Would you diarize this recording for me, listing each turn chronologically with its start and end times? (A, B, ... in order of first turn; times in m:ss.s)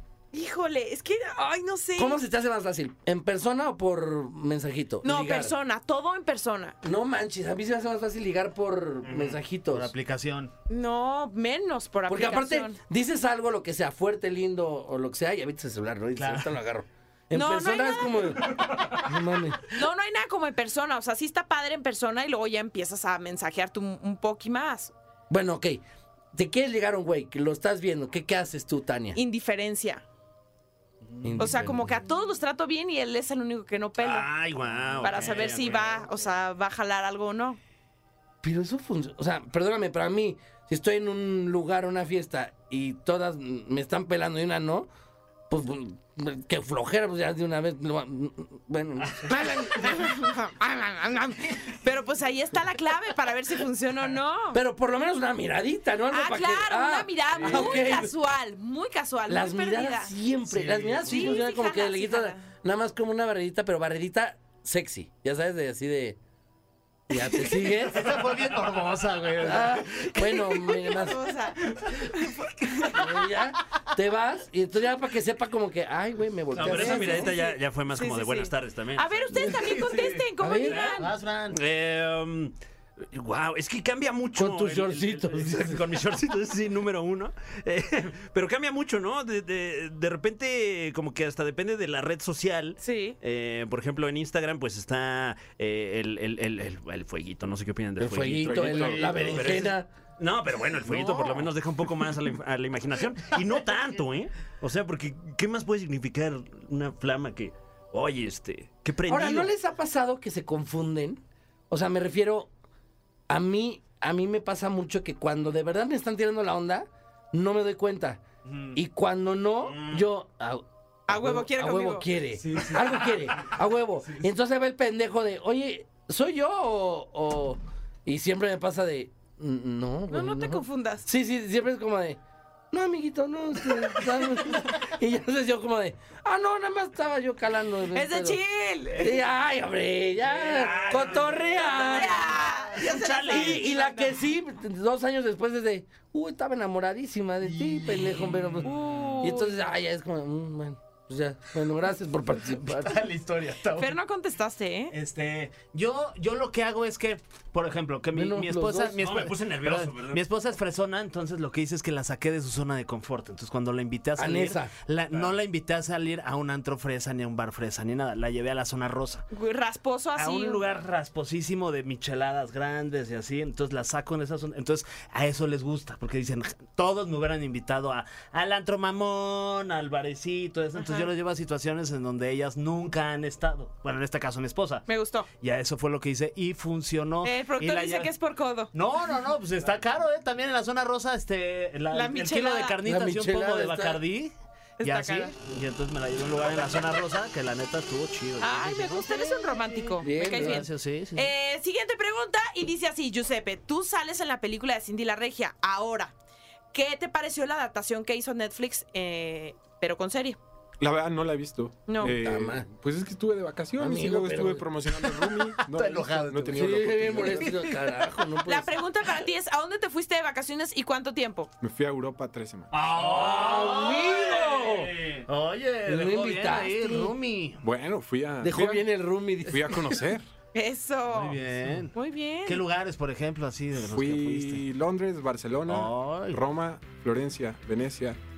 0:00.3-0:02.2 A
0:02.0-0:05.5 B
0:05.0-0:06.8 A
0:06.8-0:09.9 B
0:09.7-0:10.5 C
0:10.7-0:12.8 A
0:12.1-0:19.7 B
0:16.2-0:16.5 C
0:17.3-0:18.4 A
0:19.7-0:24.9 A
0:25.3-0:29.2 B
0:29.1-0:30.0 A
0:31.2-0:31.9 B
0:31.4-0:34.3 A
0:34.0-0:36.0 D
0:34.8-0:35.6 C
0:35.0-0:37.6 A
0:38.4-0:44.9 B
0:45.5-0:50.0 B
0:49.3-0:54.6 A
0:54.5-0:58.1 B
0:56.1-1:00.1 A
0:59.3-1:06.2 B
1:00.5-1:01.4 C
1:01.1-1:02.4 A
1:07.1-1:08.2 B
1:07.8-1:10.1 C
1:09.4-1:11.2 B
1:10.1-1:13.2 A
1:12.9-1:17.3 B
1:16.6-1:19.6 D
1:16.6-1:17.0 C
1:16.7-1:21.1 A
1:19.5-1:21.6 C
1:20.4-1:21.0 B
1:21.5-1:49.5 D
1:24.4-1:26.0 B
1:32.8-1:33.2 A
1:38.0-1:39.9 B
1:38.5-1:39.0 E
1:38.5-1:39.6 C
1:40.9-1:41.5 C
1:49.1-1:52.5 B
1:53.3-2:12.2 B
2:01.1-2:02.1 A
2:02.5-2:03.1 C
2:10.1-2:11.1 A
2:12.7-2:18.4 B
2:17.9-2:19.2 A
2:19.0-2:22.3 B
2:20.4-2:21.9 D
2:21.6-2:24.1 A
2:22.7-2:23.7 D
2:23.3-2:33.0 B
2:27.4-2:28.7 C
2:28.6-2:29.6 A
2:32.7-2:34.0 C
2:33.8-2:35.0 A
2:34.9-2:49.2 C
2:38.1-2:39.0 B
2:39.0-2:40.2 D
2:44.2-2:44.7 B
2:49.3-2:50.6 A
2:50.2-3:04.9 C
3:00.8-3:01.1 A
3:04.9-3:05.3 A
3:05.4-3:08.1 C
3:07.2-3:08.7 A
3:08.7-3:21.3 C
3:11.9-3:12.8 A
3:12.8-3:14.0 B
3:14.8-3:15.3 A
3:18.4-3:26.2 A
3:20.0-3:20.7 B
3:26.7-3:30.4 A
3:30.8-3:37.6 E
3:31.9-3:32.2 A
3:32.0-3:32.7 B
3:33.8-3:34.6 B
3:35.0-3:37.7 C
3:36.5-3:38.8 B
3:38.4-3:41.5 A
3:41.6-3:42.7 E
3:42.7-3:47.6 C
3:43.0-3:44.9 B
3:43.3-3:43.7 D
3:44.8-3:45.2 D
3:45.8-3:47.1 B
3:47.6-3:48.8 E
3:48.4-3:50.0 B
3:49.5-3:50.2 E
3:50.5-3:51.4 A
3:51.1-3:51.9 C
3:51.9-3:52.6 A
3:52.4-3:54.6 C
3:53.9-3:58.2 E
3:55.7-3:56.4 C